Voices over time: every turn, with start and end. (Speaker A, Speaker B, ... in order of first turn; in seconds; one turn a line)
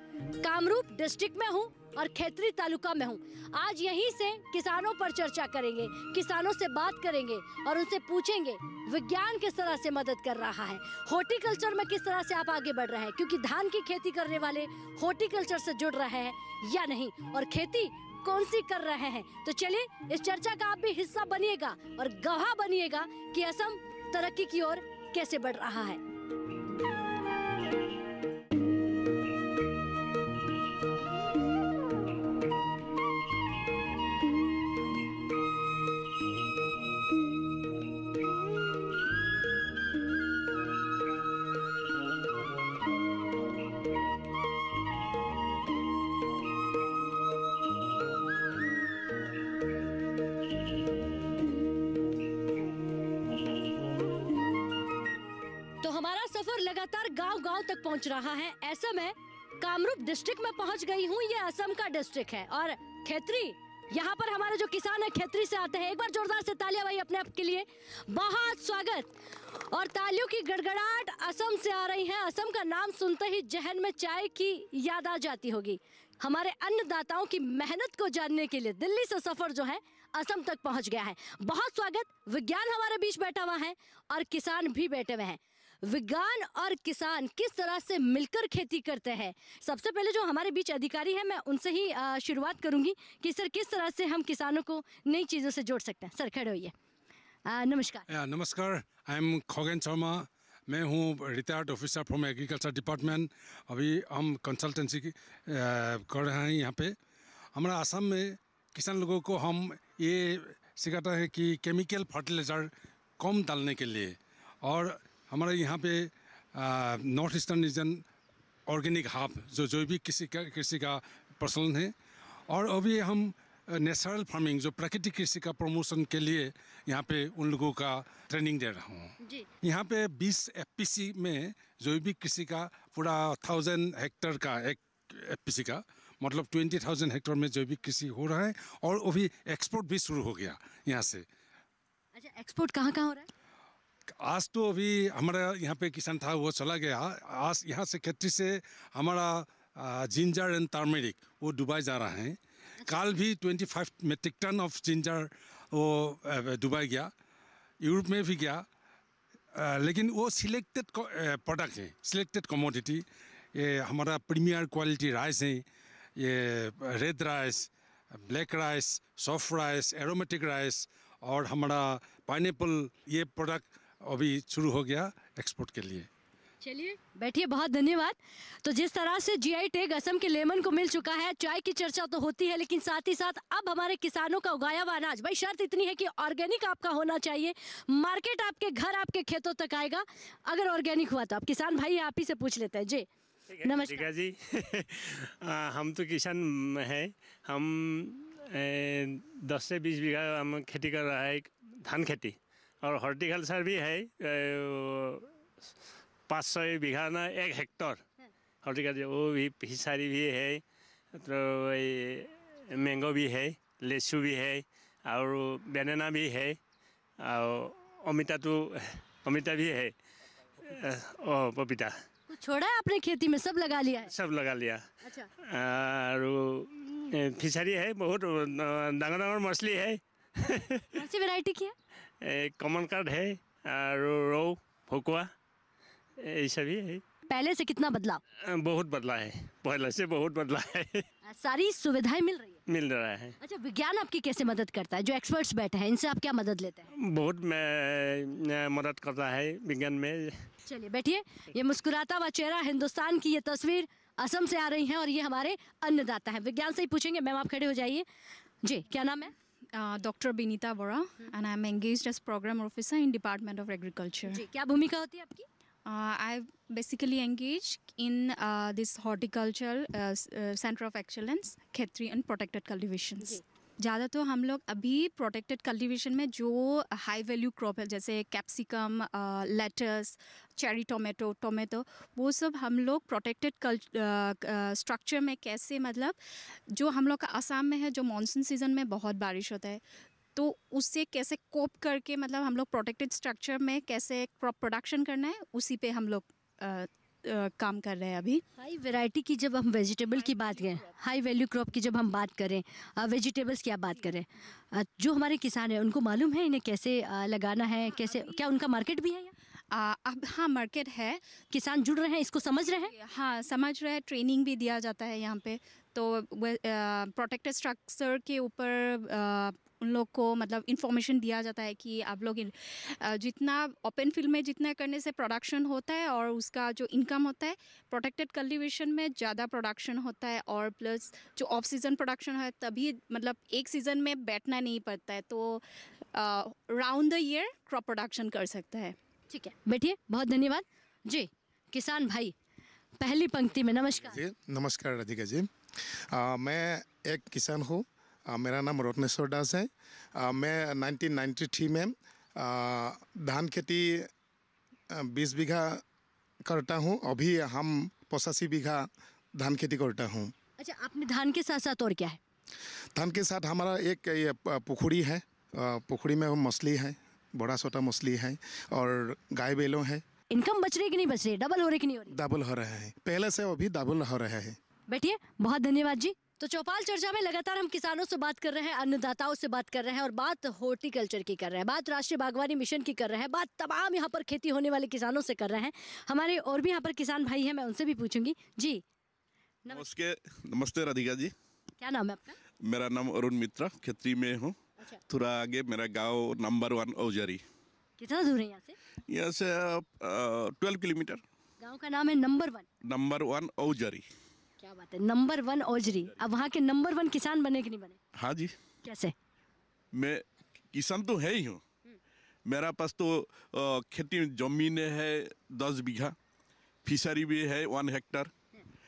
Speaker A: 0.4-26.0
Speaker A: 55.8-96.7
Speaker A: 97.5-98.1
Speaker B: 98.1-107.0
Speaker B: 107.5-118.0
Speaker B: 118.7-121.9
Speaker B: 122.5-141.2
Speaker A: 129.2-129.5
Speaker A: 142.2-143.3
Speaker B: 144.1-157.1
Speaker B: 157.8-158.7
Speaker B: 159.5-165.6
Speaker B: 166.2-176.1
Speaker A: 176.6-193.1
Speaker C: 193.5-205.3
Speaker A: 193.6-194.1
Speaker C: 206.3-208.0
Speaker C: 208.6-210.6
Speaker C: 211.2-216.6
Speaker C: 217.2-219.9
Speaker C: 220.6-221.9
Speaker A: 222.3-224.1
Speaker C: 224.1-224.8
Speaker A: 225.0-225.3
Speaker C: 225.5-230.9
Speaker A: 230.9-231.7
Speaker C: 232.2-235.3
Speaker C: 236.2-237.0
Speaker A: 237.3-238.2
Speaker C: 238.5-241.1
Speaker A: 241.3-242.6
Speaker C: 242.7-243.3
Speaker A: 243.4-246.9
Speaker C: 247.0-250.4
Speaker A: 250.7-258.1
Speaker A: 258.6-259.3
Speaker D: 259.7-264.4
Speaker A: 264.3-265.5
Speaker D: 265.9-286.2
Speaker D: 286.7-289.8
Speaker D: 290.4-298.4
Speaker A: 298.6-309.3
Speaker D: 300.2-300.8
Speaker D: 307.8-308.4
Speaker D: 309.7-311.2
Speaker A: 311.5-312.9
Speaker D: 312.7-339.0
Speaker A: 339.3-342.3
Speaker A: 343.0-344.2
Speaker E: 344.1-345.5
Speaker E: 346.1-354.1
Speaker E: 354.9-355.8
Speaker E: 356.5-360.3
Speaker A: 360.6-362.2
Speaker E: 362.9-370.0
Speaker A: 370.3-372.1
Speaker E: 372.1-374.6
Speaker A: 374.9-388.8
Speaker F: 389.7-391.3
Speaker A: 391.8-392.4
Speaker F: 392.7-394.6
Speaker F: 395.1-397.4
Speaker A: 398.0-398.8
Speaker F: 399.1-401.2
Speaker A: 401.6-402.7
Speaker F: 402.8-404.1
Speaker A: 404.6-408.0
Speaker F: 408.1-408.5
Speaker A: 408.9-409.1
Speaker F: 409.9-411.6
Speaker F: 412.5-416.1
Speaker F: 416.8-418.3